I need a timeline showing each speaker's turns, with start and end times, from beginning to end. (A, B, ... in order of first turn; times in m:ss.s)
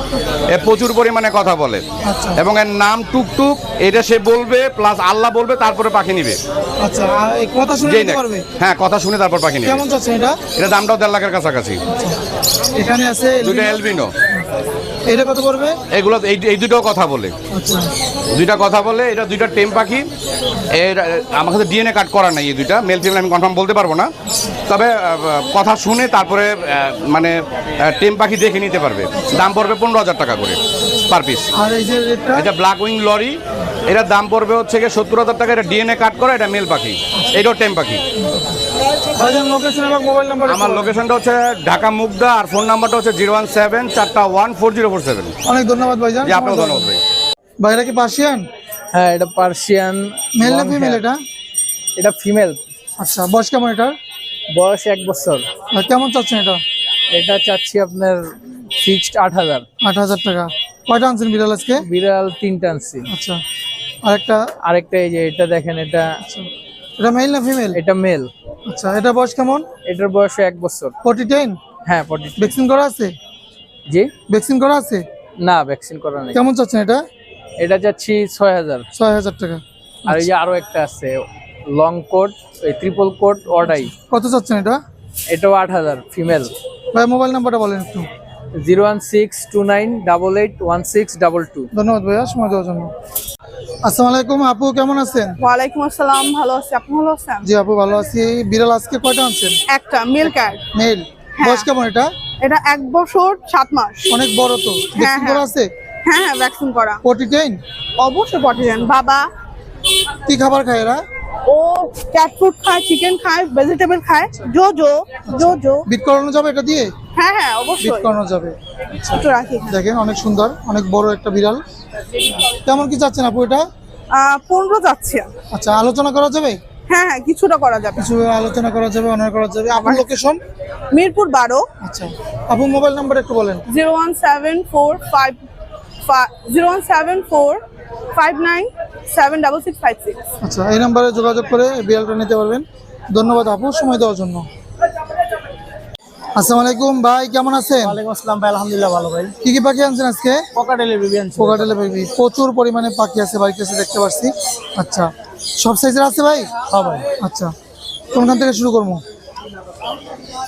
0:00.5-0:01.8 A
0:02.1-0:02.4 B
0:02.4-0:06.4 A
0:06.8-0:08.4 B
0:07.8-0:09.8 A
0:09.6-0:10.4 B
0:10.6-0:11.8 A
0:11.9-0:12.2 B
0:12.8-0:14.4 B
0:13.4-0:14.1 A
0:15.1-0:15.8 B
0:15.9-0:17.3 A
0:17.5-0:17.9 B
0:18.3-0:20.1 A
0:20.7-0:24.1 A
0:24.7-0:31.5 A
0:31.6-0:32.5 B
0:32.4-0:33.4 A
0:33.9-0:38.0 A
0:38.2-0:38.6 B
0:39.2-0:41.0 B
0:40.5-0:45.3 A
0:45.5-0:46.9 B
0:46.2-0:47.0 A
0:47.6-0:48.5 B
0:48.9-0:51.0 C
0:50.4-0:51.2 B
0:52.0-0:52.6 C
0:53.0-0:54.0 B
0:54.5-0:55.5 C
0:55.7-0:56.6 B
0:57.1-0:59.7 C
0:59.8-1:01.8 B
1:01.8-1:03.1 C
1:03.1-1:03.4 B
1:04.0-1:04.5 B
1:04.6-1:06.1 C
1:06.2-1:07.8 B
1:07.8-1:08.3 C
1:08.7-1:09.7 B
1:09.9-1:11.0 C
1:11.0-1:11.6 B
1:11.9-1:12.6 C
1:12.4-1:13.2 B
1:14.3-1:15.0 B
1:15.4-1:16.4 C
1:16.3-1:17.0 B
1:17.6-1:18.9 C
1:18.9-1:20.2 B
1:20.1-1:23.9 C
1:23.9-1:24.8 B
1:25.3-1:26.5 C
1:26.9-1:28.1 B
1:28.6-1:31.7 C
1:31.7-1:32.9 B
1:33.8-1:35.4 B
1:35.4-1:37.5 D
1:37.4-1:39.6 B
1:39.7-1:40.6 D
1:40.7-1:42.1 B
1:41.4-1:41.7 D
1:42.4-1:44.2 D
1:44.1-1:45.7 B
1:45.0-1:45.5 D
1:46.0-1:47.0 D
1:47.0-1:47.6 B
1:48.0-1:49.2 D
1:50.3-1:51.0 B
1:51.5-1:55.9 D
1:55.3-1:56.9 B
1:57.2-1:58.1 D
1:57.8-2:01.6 B
1:59.1-1:59.8 D
2:02.4-2:03.7 B
2:04.1-2:05.3 D
2:05.5-2:06.6 B
2:06.9-2:08.1 D
2:08.0-2:10.4 B
2:09.8-2:10.1 D
2:10.9-2:11.6 D
2:11.8-2:13.6 B
2:13.7-2:15.4 D
2:16.1-2:17.6 D
2:18.2-2:20.2 D
2:20.4-2:24.5 B
2:26.4-2:28.0 B
2:27.8-2:29.3 E
2:29.4-2:30.4 B
2:30.6-2:31.7 E
2:31.4-2:36.5 B
2:36.7-2:37.0 E
2:37.2-2:37.5 B
2:38.1-2:39.0 B